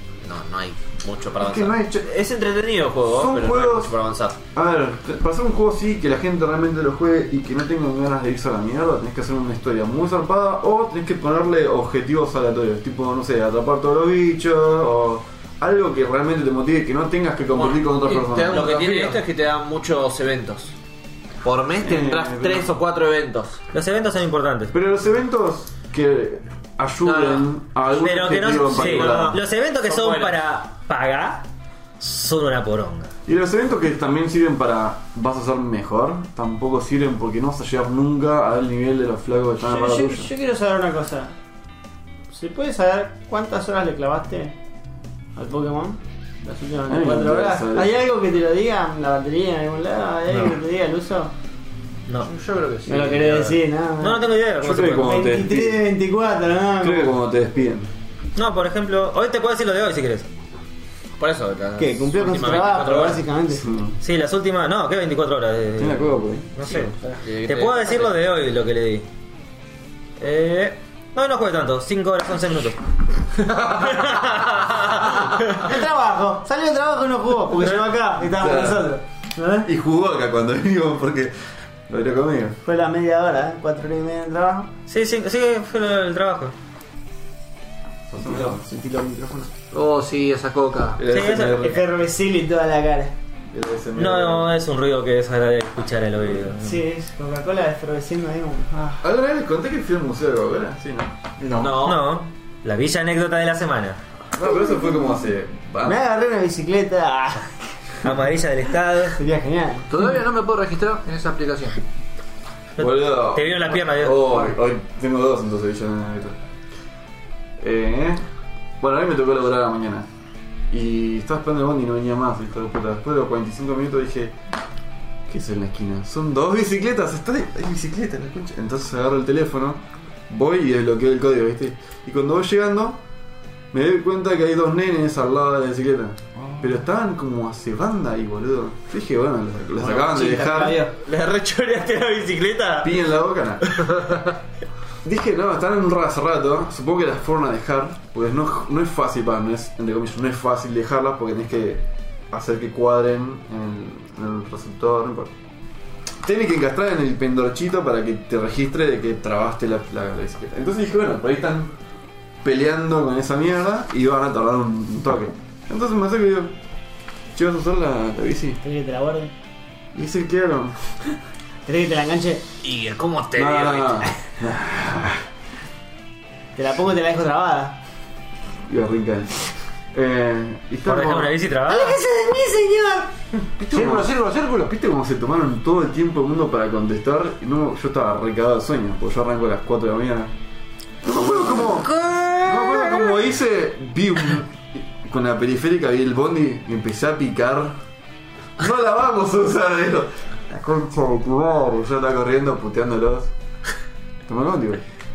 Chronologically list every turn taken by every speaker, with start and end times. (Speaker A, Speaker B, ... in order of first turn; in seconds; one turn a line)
Speaker A: 0.2-4.4
Speaker B: 1.4-2.1
Speaker B: 3.1-3.9
Speaker B: 4.5-18.6
Speaker A: 17.5-20.7
Speaker C: 18.1-19.2
Speaker A: 21.4-23.6
Speaker B: 21.8-22.7
Speaker D: 23.7-24.7
Speaker B: 24.7-29.4
Speaker D: 28.0-31.4
Speaker A: 28.7-30.4
Speaker D: 32.0-33.1
Speaker B: 33.2-40.3
Speaker E: 39.6-41.3
Speaker E: 42.3-44.5
Speaker E: 45.4-51.3
Speaker B: 46.9-48.0
Speaker C: 52.2-53.6
Speaker E: 52.9-54.3
Speaker D: 54.0-55.1
Speaker B: 54.6-55.8
Speaker E: 54.9-57.1
Speaker B: 56.8-57.9
Speaker D: 58.4-60.3
Speaker A: 61.2-63.2
Speaker E: 61.8-63.7
Speaker B: 63.6-64.0
Speaker D: 64.0-69.0
Speaker B: 65.8-66.9
Speaker A: 67.2-68.1
Speaker D: 70.2-72.8
Speaker D: 73.5-75.7
Speaker E: 75.5-79.7
Speaker B: 78.2-78.8
Speaker B: 79.6-81.3
Speaker B: 81.9-82.6
Speaker E: 82.6-84.7
Speaker D: 84.9-86.5
Speaker B: 88.1-89.5
Speaker E: 88.8-89.3
Speaker C: 89.7-91.0
Speaker B: 91.0-91.8
Speaker D: 91.1-91.6
Speaker E: 91.5-93.1
Speaker B: 93.5-94.5
Speaker D: 94.0-96.8
Speaker E: 96.6-99.0
Speaker B: 99.0-101.1
Speaker C: 101.4-101.8
Speaker A: 101.6-102.1
Speaker D: 101.7-104.0
Speaker B: 104.3-106.0
Speaker E: 105.8-107.5
Speaker D: 108.0-109.2
Speaker E: 109.1-109.9
Speaker C: 109.9-111.8
Speaker D: 112.8-114.4
Speaker B: 112.8-116.3
Speaker B: 117.6-118.2
Speaker B: 118.8-120.1
Speaker B: 120.7-124.3
Speaker B: 125.3-133.0
Speaker B: 133.7-140.8
Speaker E: 139.8-140.9
Speaker A: 140.9-143.0
Speaker B: 142.8-143.8
Speaker A: 143.7-144.3
Speaker B: 145.0-155.3
Speaker B: 156.2-161.7
Speaker B: 162.4-166.5
Speaker B: 167.3-168.6
Speaker E: 168.6-169.3
Speaker B: 169.9-170.9
Speaker E: 171.7-172.4
Speaker A: 172.6-174.2
Speaker B: 173.3-175.2
Speaker E: 176.6-177.8
Speaker B: 178.7-181.3
Speaker D: 180.8-182.0
Speaker E: 181.7-183.1
Speaker C: 183.6-184.7
Speaker B: 183.7-190.3
Speaker B: 191.0-191.9
Speaker D: 191.8-193.0
Speaker B: 192.4-197.8
Speaker B: 198.6-203.3
Speaker B: 204.2-204.8